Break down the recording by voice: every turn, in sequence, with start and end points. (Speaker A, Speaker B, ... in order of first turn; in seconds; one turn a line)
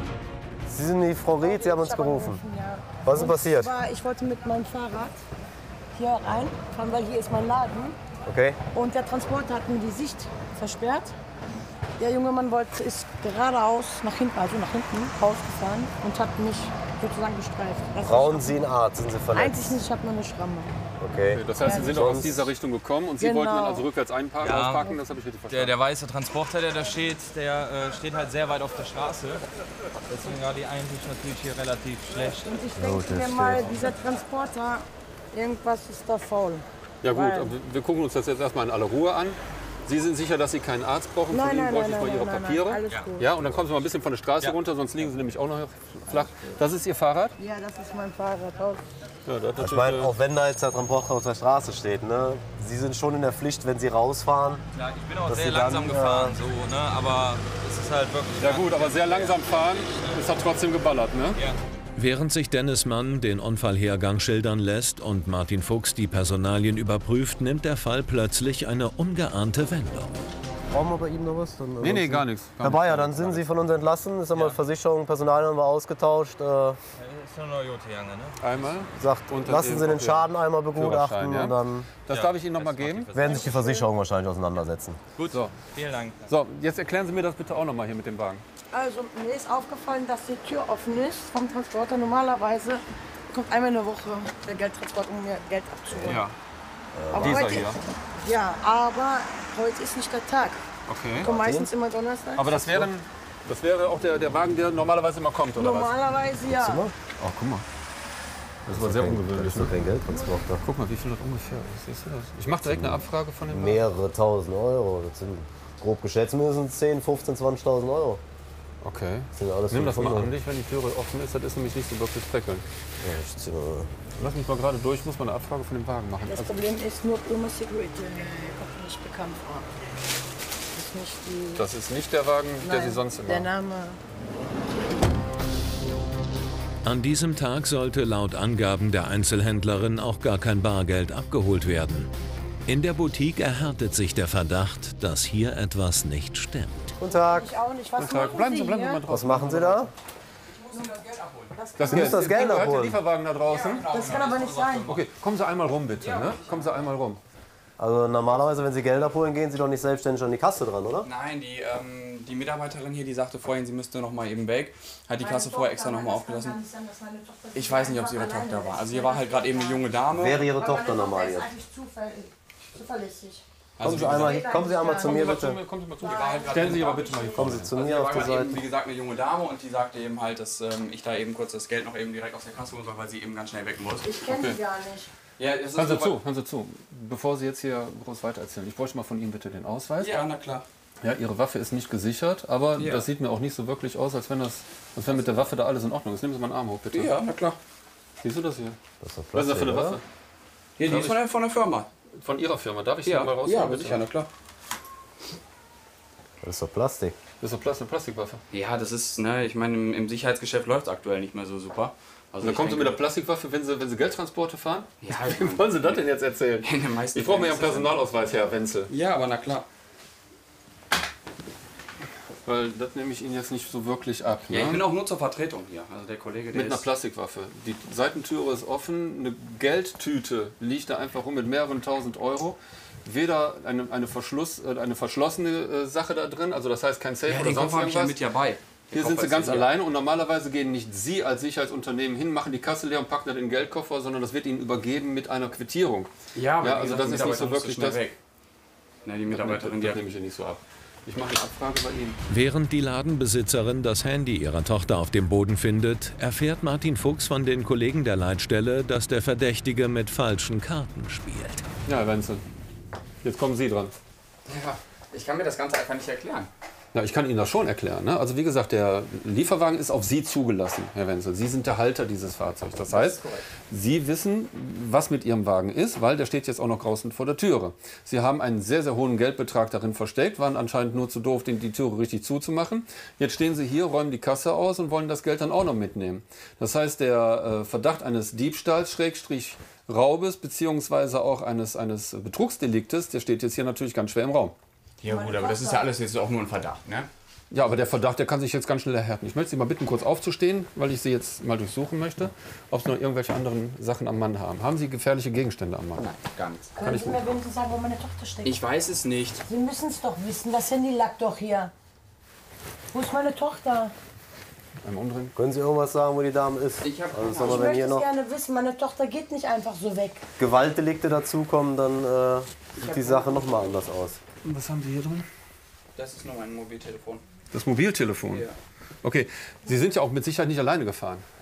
Speaker A: 0.7-2.4
Speaker B: 1.4-5.2
Speaker A: 3.0-3.7
Speaker B: 5.9-8.0
Speaker A: 8.2-8.6
Speaker B: 8.7-11.1
Speaker B: 12.0-18.7
Speaker A: 18.0-19.8
Speaker B: 19.3-20.8
Speaker A: 21.0-22.4
Speaker C: 21.3-25.7
Speaker B: 21.6-22.3
Speaker B: 23.2-23.9
Speaker D: 24.4-24.9
Speaker D: 25.5-29.4
Speaker D: 30.1-32.6
Speaker B: 32.4-37.5
Speaker A: 32.7-33.8
Speaker C: 37.0-47.3
Speaker B: 41.3-43.4
Speaker B: 47.4-48.8
Speaker C: 49.2-50.1
Speaker A: 49.6-54.6
Speaker D: 54.7-60.2
Speaker A: 55.2-56.4
Speaker C: 58.4-61.4
Speaker E: 62.0-70.2
Speaker A: 70.7-76.8
Speaker C: 71.8-73.5
Speaker D: 77.0-78.4
Speaker C: 78.4-83.1
Speaker A: 79.0-81.9
Speaker D: 82.1-83.7
Speaker A: 83.1-85.0
Speaker B: 83.2-83.9
Speaker D: 85.2-86.3
Speaker C: 86.3-88.4
Speaker B: 88.7-96.3
Speaker A: 95.9-96.2
Speaker A: 96.9-97.4
Speaker B: 97.1-100.6
Speaker C: 97.1-97.8
Speaker C: 100.9-101.3
Speaker B: 101.2-102.9
Speaker A: 101.2-101.7
Speaker C: 102.3-106.0
Speaker B: 105.5-106.9
Speaker A: 106.5-106.9
Speaker C: 107.2-107.6
Speaker C: 108.7-109.7
Speaker A: 108.7-110.6
Speaker B: 110.1-110.5
Speaker C: 110.6-113.8
Speaker A: 112.6-118.2
Speaker C: 118.8-122.6
Speaker A: 119.3-120.3
Speaker A: 123.0-123.9
Speaker C: 124.2-126.7
Speaker B: 126.2-129.7
Speaker B: 130.7-131.7
Speaker C: 131.5-133.5
Speaker B: 132.6-134.0
Speaker E: 136.8-142.1
Speaker E: 142.7-146.9
Speaker A: 147.0-147.5
Speaker B: 147.1-149.0
Speaker C: 147.9-149.9
Speaker A: 149.1-149.9
Speaker F: 150.7-151.6
Speaker B: 150.7-151.0
Speaker B: 151.5-152.5
Speaker C: 151.8-154.0
Speaker A: 151.8-153.0
Speaker F: 153.4-154.9
Speaker B: 153.8-155.0
Speaker C: 154.8-157.2
Speaker F: 156.0-156.7
Speaker A: 157.8-161.1
Speaker F: 161.0-166.6
Speaker B: 165.2-169.9
Speaker F: 167.5-170.4
Speaker A: 170.1-171.5
Speaker B: 170.5-173.4
Speaker F: 173.8-174.4
Speaker A: 173.8-175.6
Speaker B: 174.1-175.4
Speaker C: 174.9-177.7
Speaker B: 176.0-177.6
Speaker F: 176.1-184.2
Speaker A: 177.3-178.6
Speaker B: 184.0-185.1
Speaker C: 184.2-184.6
Speaker F: 185.4-186.2
Speaker C: 185.7-190.2
Speaker F: 190.0-190.7
Speaker C: 191.0-197.2
Speaker F: 192.8-193.1
Speaker F: 196.9-197.6
Speaker C: 198.2-198.8
Speaker A: 199.0-200.0
Speaker C: 199.3-200.0
Speaker F: 200.8-201.9
Speaker C: 200.8-201.2
Speaker C: 202.2-204.1
Speaker F: 203.0-204.3
Speaker A: 206.4-207.2
Speaker C: 207.4-208.4
Speaker F: 208.5-213.0
Speaker C: 212.4-218.9
Speaker F: 215.0-216.1
Speaker F: 216.6-218.2
Speaker F: 218.9-219.7
Speaker C: 222.4-224.9
Speaker F: 224.5-226.9
Speaker C: 226.5-238.2
Speaker F: 237.2-239.7
Speaker C: 238.9-248.1
Speaker F: 246.3-248.2
Speaker F: 249.0-250.0
Speaker C: 249.2-252.2
Speaker E: 252.3-261.7
Speaker C: 261.9-262.4
Speaker C: 263.2-263.9
Speaker F: 264.5-266.5
Speaker C: 266.9-294.5
Speaker F: 272.9-273.5
Speaker F: 295.0-297.1
Speaker B: 295.0-295.9
Speaker C: 297.5-306.1
Speaker F: 306.0-306.8
Speaker B: 306.8-308.6
Speaker C: 306.8-307.3
Speaker F: 308.4-309.4
Speaker B: 309.4-311.7
Speaker B: 312.9-313.9
Speaker C: 314.8-315.3
Speaker A: 315.4-318.1
Speaker F: 316.8-317.6
Speaker B: 317.4-320.2
Speaker A: 320.4-324.2
Speaker F: 322.8-323.8
Speaker C: 324.4-325.3
Speaker F: 325.9-327.2
Speaker C: 327.5-328.5
Speaker F: 328.3-328.6
Speaker C: 329.0-331.2